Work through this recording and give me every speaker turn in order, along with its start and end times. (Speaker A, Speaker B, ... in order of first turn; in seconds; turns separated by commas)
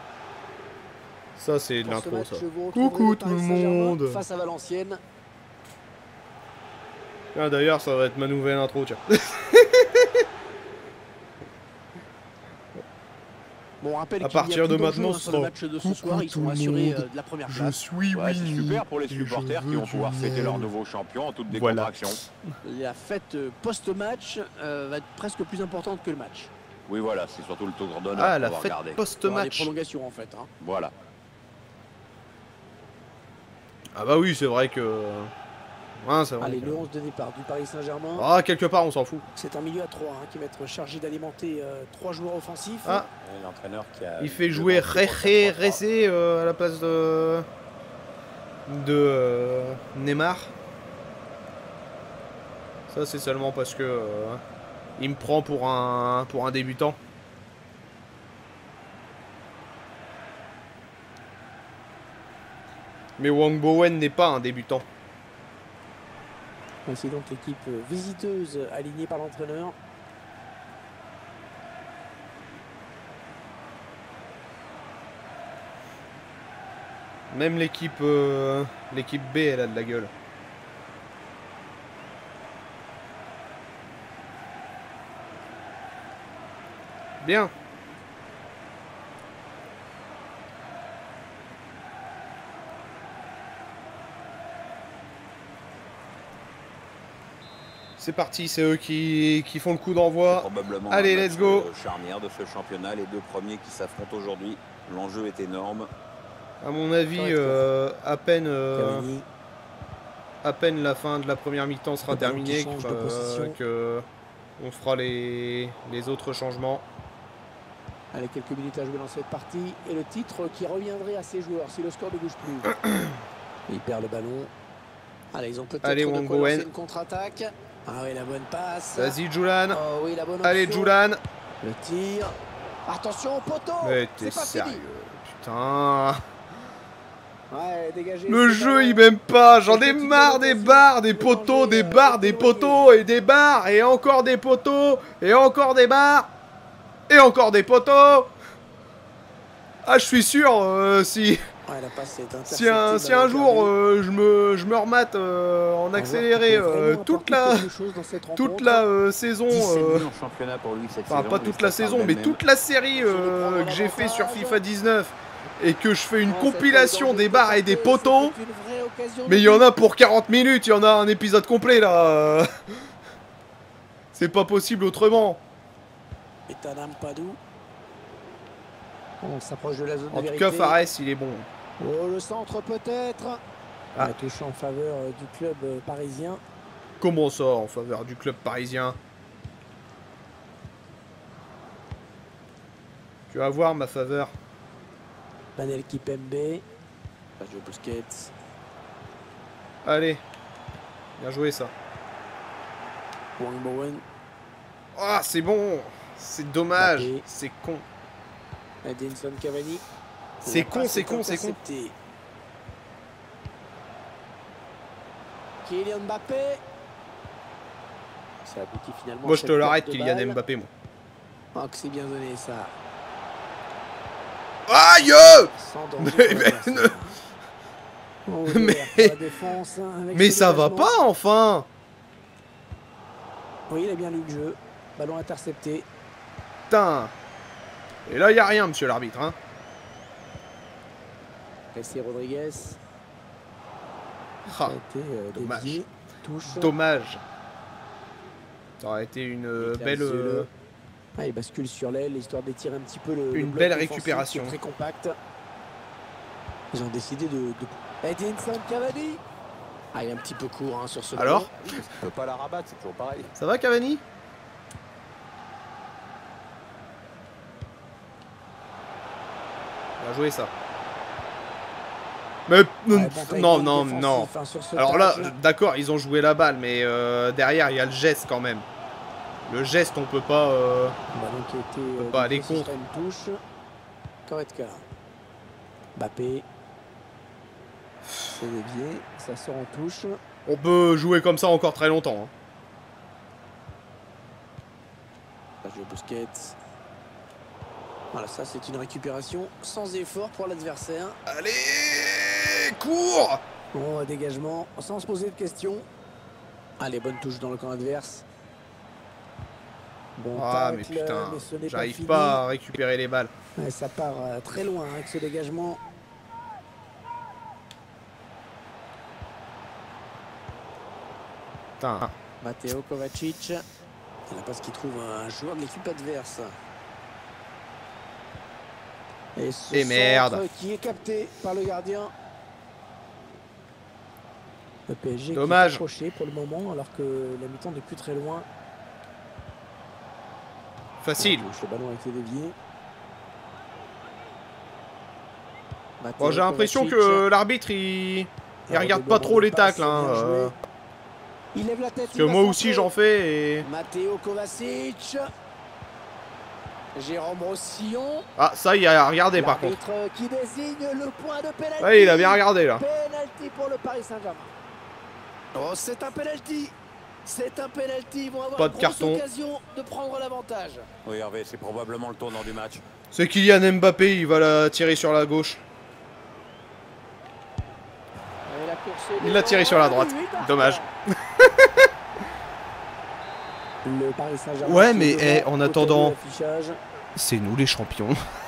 Speaker A: 1.4-4.2, Speaker B: 1.8-5.0, Speaker A: 7.3-10.2, Speaker B: 13.8-17.8, Speaker A: 14.2-20.7, Speaker C: 18.1-22.2, Speaker A: 21.5-22.2, Speaker B: 22.6-26.5, Speaker C: 26.9-29.0, Speaker A: 28.1-29.7, Speaker B: 29.2-30.5, Speaker C: 30.6-30.9, Speaker A: 33.9-35.3, Speaker A: 36.0-36.8, Speaker B: 36.4-38.3, Speaker A: 38.2-39.2, Speaker B: 39.3-43.0, Speaker C: 43.2-45.8, Speaker A: 44.2-47.5, Speaker A: 48.7-50.5, Speaker A: 52.9-54.4, Speaker A: 55.0-57.0, Speaker A: 63.2-64.8, Speaker B: 66.8-69.8, Speaker A: 77.3-80.1, Speaker A: 87.2-87.5, Speaker A: 98.0-101.7, Speaker C: 100.2-105.9, Speaker A: 106.6-109.0, Speaker B: 107.1-107.7, Speaker B: 108.7-109.3, Speaker A: 110.4-114.0, Speaker B: 112.1-113.6, Speaker A: 114.6-116.8, Speaker B: 118.1-122.7, Speaker A: 122.7-123.2, Speaker B: 123.7-124.5, Speaker B: 125.3-129.2, Speaker A: 125.8-126.7, Speaker A: 128.9-129.8, Speaker B: 129.7-130.9, Speaker A: 130.4-131.2, Speaker B: 131.6-132.3, Speaker B: 132.8-134.8, Speaker A: 133.8-136.2, Speaker B: 137.5-139.1, Speaker A: 138.3-146.3, Speaker B: 139.6-142.9, Speaker A: 147.1-148.3, Speaker A: 149.8-151.4, Speaker B: 151.7-153.7, Speaker A: 152.5-157.7, Speaker B: 155.9-158.8, Speaker A: 158.3-160.1, Speaker C: 159.5-162.4, Speaker A: 161.1-168.3, Speaker B: 162.9-164.6, Speaker B: 166.2-169.7, Speaker A: 169.3-172.5, Speaker A: 174.1-175.4, Speaker B: 176.5-177.4, Speaker B: 179.2-180.8, Speaker A: 180.1-181.5, Speaker B: 181.8-183.4, Speaker B: 184.0-186.4, Speaker A: 187.0-189.0, Speaker A: 193.3-194.3, Speaker B: 195.6-196.6, Speaker B: 197.4-198.3, Speaker A: 199.8-200.2, Speaker A: 201.2-201.7, Speaker B: 203.4-204.0, Speaker A: 204.9-207.8, Speaker B: 206.8-207.2, Speaker B: 208.8-209.8, Speaker B: 210.4-211.9, Speaker A: 210.4-211.6, Speaker B: 215.6-216.6, Speaker B: 218.4-220.4, Speaker A: 219.2-220.7, Speaker B: 221.5-222.7, Speaker A: 224.7-226.9, Speaker B: 225.5-227.1, Speaker B: 228.2-230.9, Speaker A: 228.5-229.2, Speaker A: 230.1-231.7, Speaker B: 233.7-235.9, Speaker A: 236.7-237.1, Speaker A: 238.1-239.4, Speaker B: 241.7-242.8, Speaker A: 244.5-244.8, Speaker B: 244.5-246.7, Speaker A: 245.3-245.8, Speaker A: 246.4-247.2, Speaker A: 248.8-250.5, Speaker B: 249.6-250.5, Speaker B: 251.2-255.2, Speaker A: 253.3-254.6, Speaker B: 256.7-259.2, Speaker B: 259.9-261.5, Speaker A: 261.1-261.5, Speaker C: 261.6-263.3, Speaker A: 263.4-264.0, Speaker A: 270.0-270.5, Speaker A: 272.5-278.6, Speaker B: 272.9-275.3, Speaker A: 279.4-280.9, Speaker B: 281.1-283.4, Speaker A: 281.9-282.7, Speaker B: 284.2-284.8, Speaker B: 285.9-286.5, Speaker B: 288.3-290.2, Speaker A: 290.4-292.3, Speaker B: 295.6-296.6, Speaker B: 298.1-301.2, Speaker A: 301.3-303.4, Speaker B: 303.7-305.9, Speaker B: 306.8-308.2, Speaker B: 310.2-312.4, Speaker A: 310.3-313.3, Speaker B: 313.6-315.8, Speaker A: 321.8-322.1, Speaker B: 322.4-323.6, Speaker B: 324.3-326.5, Speaker B: 329.4-332.1, Speaker A: 329.7-330.5, Speaker B: 334.9-338.5, Speaker A: 335.3-335.8, Speaker A: 341.0-341.4, Speaker B: 341.2-342.5, Speaker B: 346.0-347.2, Speaker A: 346.2-350.5, Speaker B: 348.7-350.5, Speaker B: 351.5-352.9, Speaker A: 352.1-353.7, Speaker B: 353.6-355.2, Speaker B: 356.9-358.3, Speaker A: 358.4-359.8, Speaker B: 359.3-364.5, Speaker A: 361.8-362.8, Speaker B: 365.5-366.7, Speaker B: 367.2-370.9, Speaker A: 368.6-369.2, Speaker C: 371.0-372.8, Speaker A: 373.1-375.6, Speaker B: 378.4-380.9, Speaker A: 379.2-381.9, Speaker B: 383.8-386.8, Speaker A: 384.6-386.1, Speaker A: 387.1-388.2